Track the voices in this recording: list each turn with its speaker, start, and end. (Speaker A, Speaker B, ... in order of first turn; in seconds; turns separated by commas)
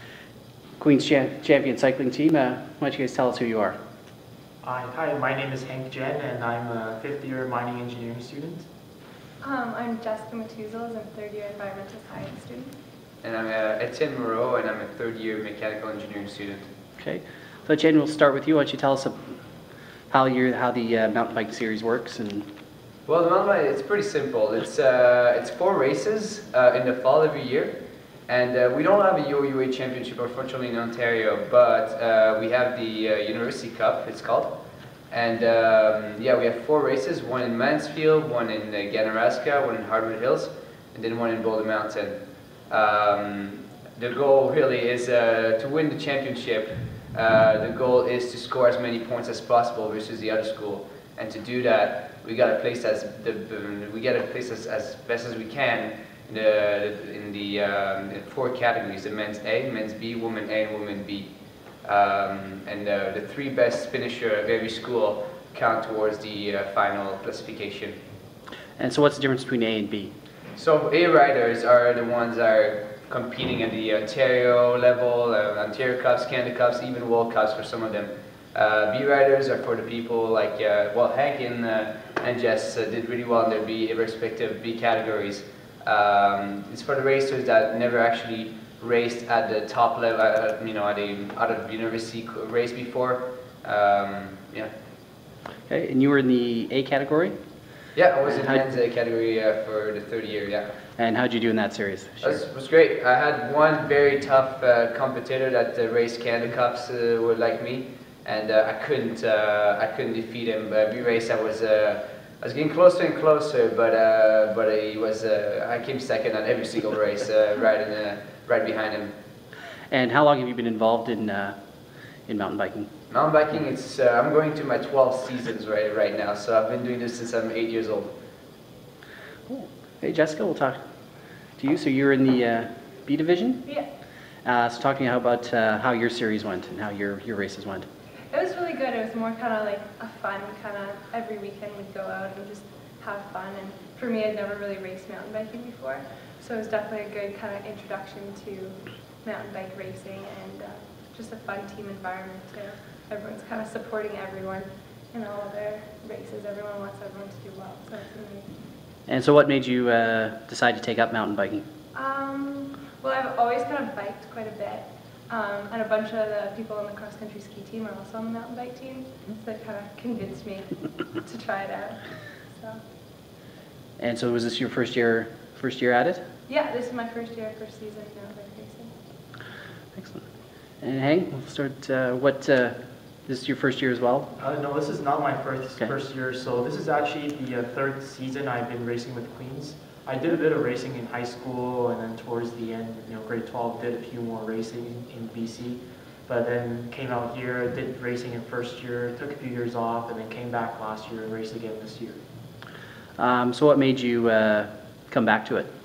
Speaker A: 0.8-3.8, Speaker B: 4.6-8.7, Speaker C: 9.4-12.8, Speaker D: 13.2-16.7, Speaker A: 17.0-19.3, Speaker A: 20.1-22.5, Speaker D: 23.1-34.5, Speaker D: 35.1-61.3, Speaker D: 61.8-68.0, Speaker A: 68.8-70.1, Speaker D: 70.5-94.7, Speaker A: 95.7-97.3, Speaker D: 97.9-100.8, Speaker A: 98.2-98.6, Speaker A: 101.0-102.4, Speaker D: 102.2-119.1, Speaker A: 119.9-121.6, Speaker A: 122.3-122.9, Speaker D: 123.1-128.1, Speaker A: 129.5-130.8, Speaker A: 131.6-133.6, Speaker A: 134.4-137.9, Speaker C: 138.3-158.5, Speaker A: 159.1-161.7, Speaker C: 161.9-172.8, Speaker A: 174.0-176.2, Speaker C: 176.5-178.9, Speaker A: 179.9-180.2, Speaker A: 180.8-184.3, Speaker B: 184.4-202.2, Speaker A: 203.2-205.7